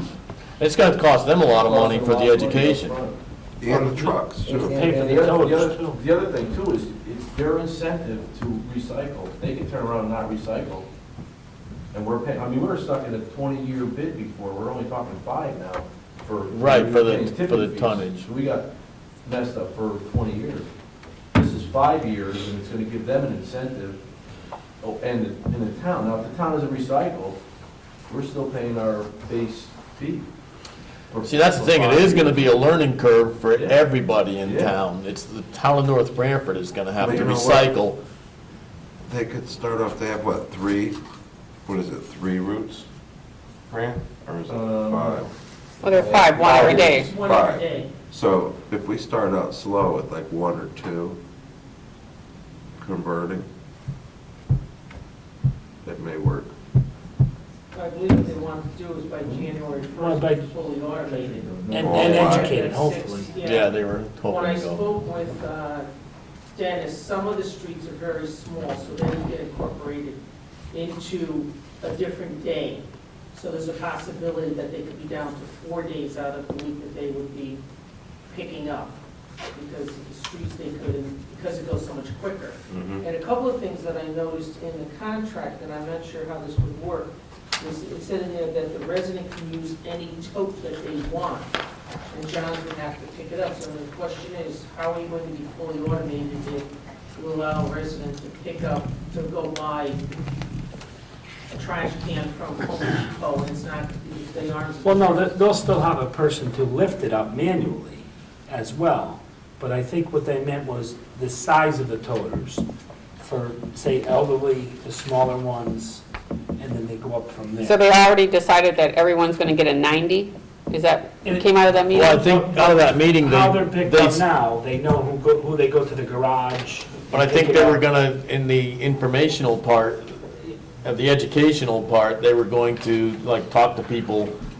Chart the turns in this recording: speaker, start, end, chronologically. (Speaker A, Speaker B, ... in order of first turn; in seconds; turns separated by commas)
Speaker A: 0.6-3.0, Speaker B: 1.6-3.2, Speaker C: 3.6-4.8, Speaker D: 3.7-6.0, Speaker B: 4.4-10.9, Speaker B: 11.9-18.7, Speaker A: 16.5-18.2, Speaker B: 19.2-20.7, Speaker B: 21.3-24.0, Speaker B: 24.8-27.4, Speaker B: 28.1-30.3, Speaker B: 31.1-32.7, Speaker A: 31.2-38.0, Speaker B: 33.5-33.8, Speaker B: 34.4-34.7, Speaker C: 37.0-37.7, Speaker C: 39.0-41.0, Speaker C: 41.6-42.9, Speaker C: 43.7-45.3, Speaker B: 44.5-45.2, Speaker E: 45.8-47.1, Speaker B: 45.9-47.1, Speaker C: 46.4-51.2, Speaker F: 46.4-47.9, Speaker C: 52.8-53.5, Speaker C: 55.8-56.5, Speaker F: 57.7-65.9, Speaker D: 59.9-60.5, Speaker B: 61.5-62.0, Speaker D: 61.7-63.3, Speaker C: 61.8-62.6, Speaker A: 63.3-64.9, Speaker F: 66.5-70.2, Speaker F: 70.7-77.6, Speaker F: 78.3-79.0, Speaker F: 79.5-91.5, Speaker C: 82.7-83.0, Speaker F: 92.1-100.0, Speaker F: 101.5-105.3, Speaker D: 104.8-112.6, Speaker D: 113.2-116.0, Speaker D: 116.6-117.8, Speaker E: 117.6-122.1, Speaker D: 121.2-127.8, Speaker A: 121.9-124.2, Speaker A: 127.1-134.3